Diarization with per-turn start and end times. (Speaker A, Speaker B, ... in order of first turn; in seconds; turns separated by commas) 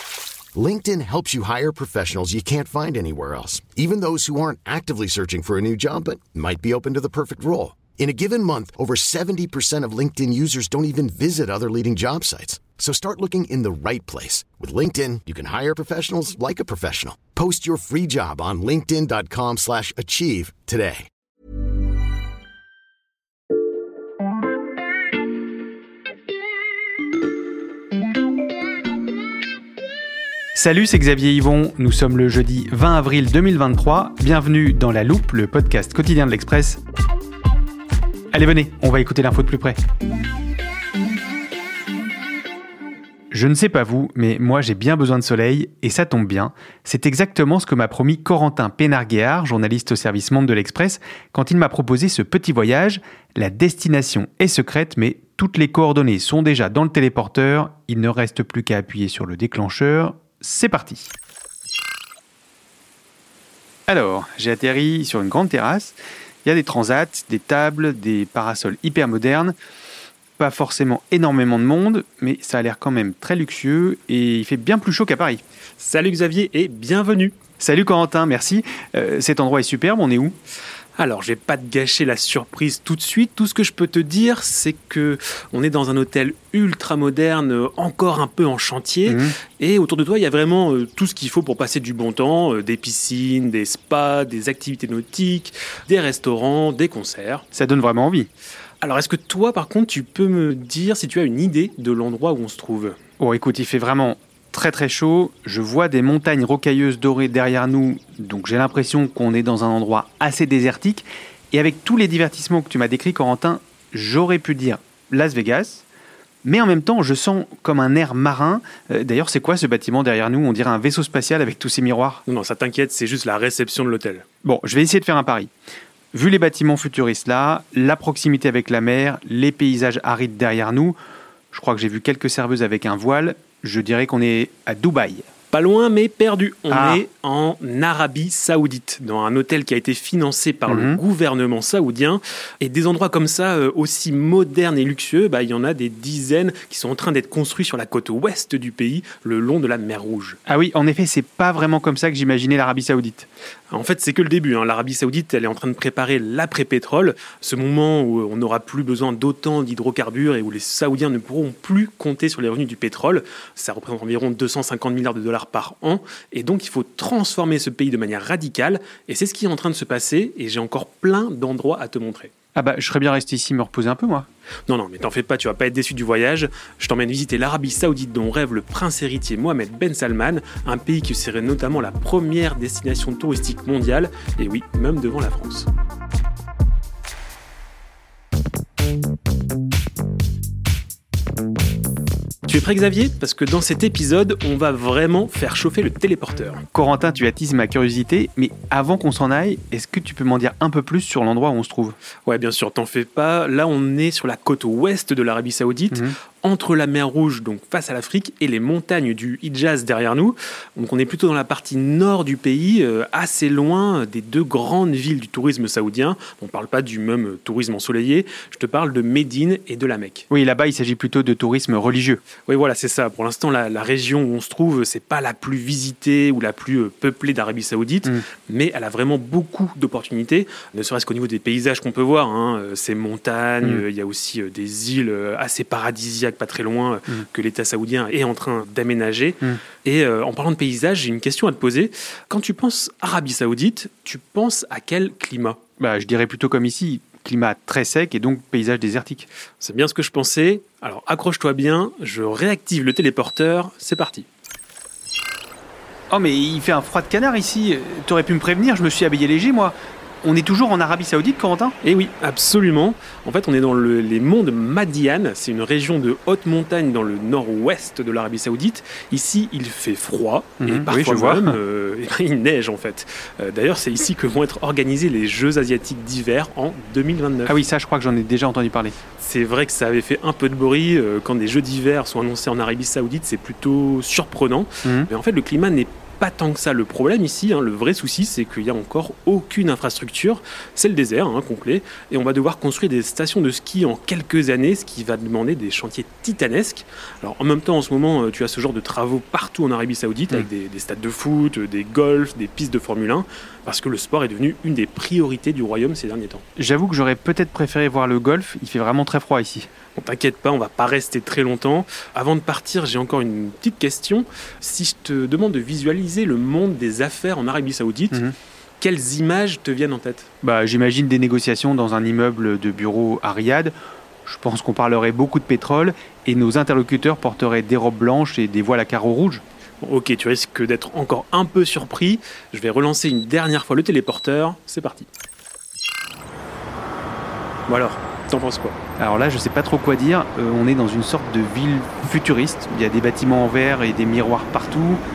Speaker A: 0.6-21.1, Speaker B: 30.5-36.8, Speaker B: 38.3-39.8, Speaker B: 43.3-61.1, Speaker B: 63.9-69.6, Speaker B: 70.4-75.4, Speaker C: 75.8-77.4, Speaker B: 77.6-80.3, Speaker C: 81.0-97.5, Speaker B: 89.1-89.3, Speaker B: 97.5-98.3, Speaker C: 98.8-103.0, Speaker B: 103.2-115.8, Speaker B: 116.4-122.2, Speaker C: 122.3-124.2, Speaker B: 124.4-125.5, Speaker B: 126.1-131.0, Speaker B: 131.5-135.2, Speaker C: 135.5-150.4, Speaker B: 136.7-137.0, Speaker B: 140.7-141.0, Speaker B: 150.5-153.3, Speaker C: 153.7-172.3, Speaker B: 172.6-174.3, Speaker C: 174.7-185.7, Speaker C: 192.5-196.7, Speaker B: 196.7-202.0, Speaker C: 202.3-220.3, Speaker B: 220.3-222.2, Speaker C: 222.5-245.6, Speaker B: 245.8-249.3, Speaker C: 249.6-254.3, Speaker B: 256.1-261.8, Speaker C: 261.8-277.6, Speaker B: 270.6-271.6, Speaker B: 277.5-278.9, Speaker C: 279.2-306.4, Speaker B: 306.6-309.7, Speaker C: 310.0-318.2, Speaker C: 318.8-320.3, Speaker B: 320.4-323.7, Speaker B: 324.2-329.4, Speaker C: 329.8-335.1, Speaker C: 337.7-338.8, Speaker B: 339.0-345.0